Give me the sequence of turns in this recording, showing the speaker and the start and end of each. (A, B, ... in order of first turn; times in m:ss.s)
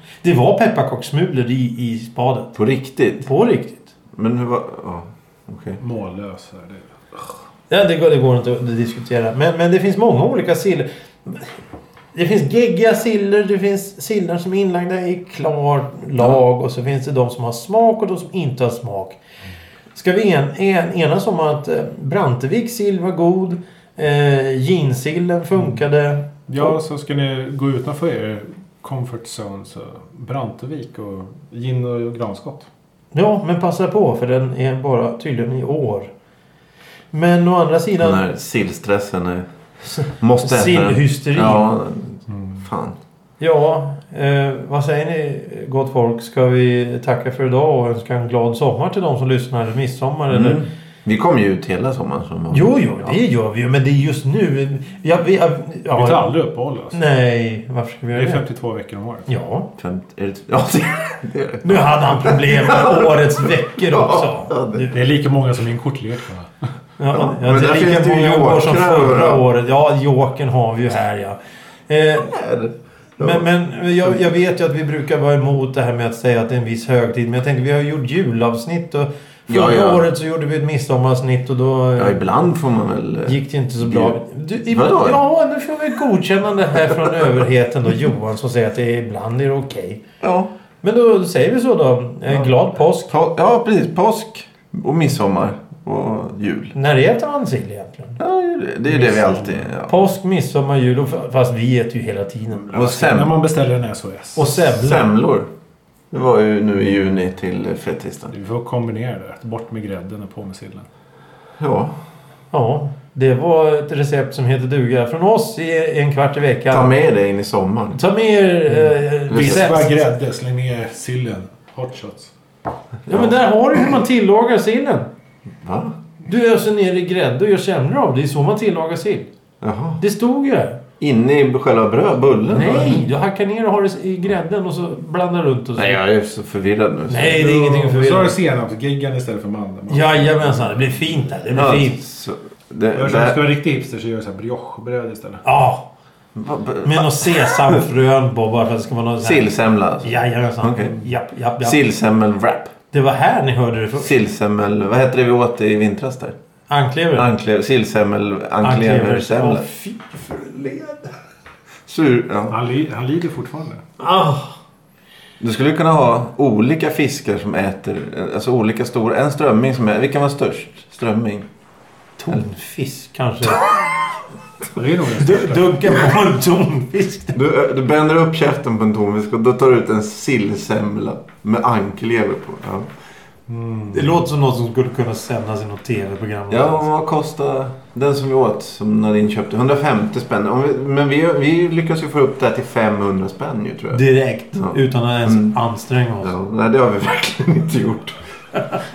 0:00.2-0:02.6 A
0:02.6-0:03.2 B
0:03.2-0:03.9 A
0:04.1-0:05.8 B
0:05.8-0:07.3 C
0:07.7-0:11.5 A
0:12.1-0:19.2 A
0:19.9-0:26.8 A
0:26.5-0:32.7 C
0:33.1-0:36.1 A
0:37.1-0:38.2 A
0:38.0-0:39.5 B
0:39.9-0:41.7 A
0:40.1-0:43.0 B
0:42.3-0:42.6 C
0:43.4-0:50.6 A
0:50.3-0:53.2 B
0:52.5-0:56.3 A
0:55.9-0:57.0 C
0:56.9-0:58.4 A
0:58.1-0:59.3 C
0:59.3-0:59.7 A
0:59.8-1:04.9 B
1:01.6-1:04.9 A
1:04.9-1:06.5 C
1:07.0-1:12.3 A
1:07.1-1:09.4 B
1:12.2-1:13.4 B
1:13.2-1:22.4 A
1:19.5-1:20.0 B
1:22.0-1:25.2 B
1:23.2-1:30.0 A
1:30.2-1:30.5 B
1:30.8-1:33.1 A
1:33.1-1:36.7 B
1:36.7-1:38.2 A
1:38.2-1:40.0 B
1:38.9-1:39.7 C
1:39.9-1:43.2 A
1:42.7-1:43.4 B
1:43.1-1:44.5 C
1:44.4-1:45.1 A
1:44.6-1:45.5 B
1:46.1-1:48.3 B
1:48.3-1:50.8 C
1:51.6-1:51.9 B
1:52.5-1:56.9 A
1:56.7-1:58.0 B
1:57.9-1:59.9 A
1:59.3-2:02.3 C
1:59.3-1:59.7 B
2:03.1-2:03.3 B
2:03.1-2:05.1 A
2:05.6-2:05.9 B
2:06.2-2:09.3 A
2:09.6-2:10.0 B
2:10.0-2:10.8 A
2:11.0-2:13.1 B
2:12.5-2:16.0 A
2:15.8-2:17.4 B
2:17.1-2:18.4 A
2:17.2-2:21.2 C
2:19.9-2:22.0 A
2:21.5-2:23.4 B
2:22.9-2:25.4 C
2:25.4-2:25.9 A
2:26.3-2:27.8 B
2:26.8-2:31.8 A
2:29.2-2:31.0 B
2:31.6-2:32.7 B
2:32.9-2:34.2 A
2:34.0-2:36.3 B
2:36.7-2:37.3 A
2:37.2-2:39.6 B
2:38.6-2:41.1 A
2:41.9-2:42.6 B
2:42.5-2:43.8 C
2:44.0-2:44.6 A
2:45.4-2:51.5 B
2:52.2-2:53.8 A
2:54.7-2:55.8 C
2:55.1-2:57.4 A
2:57.3-3:02.9 B
3:03.5-3:04.2 C
3:03.9-3:06.9 A
3:06.5-3:14.0 B
3:13.9-3:16.3 A
3:14.5-3:15.6 B
3:16.2-3:18.2 B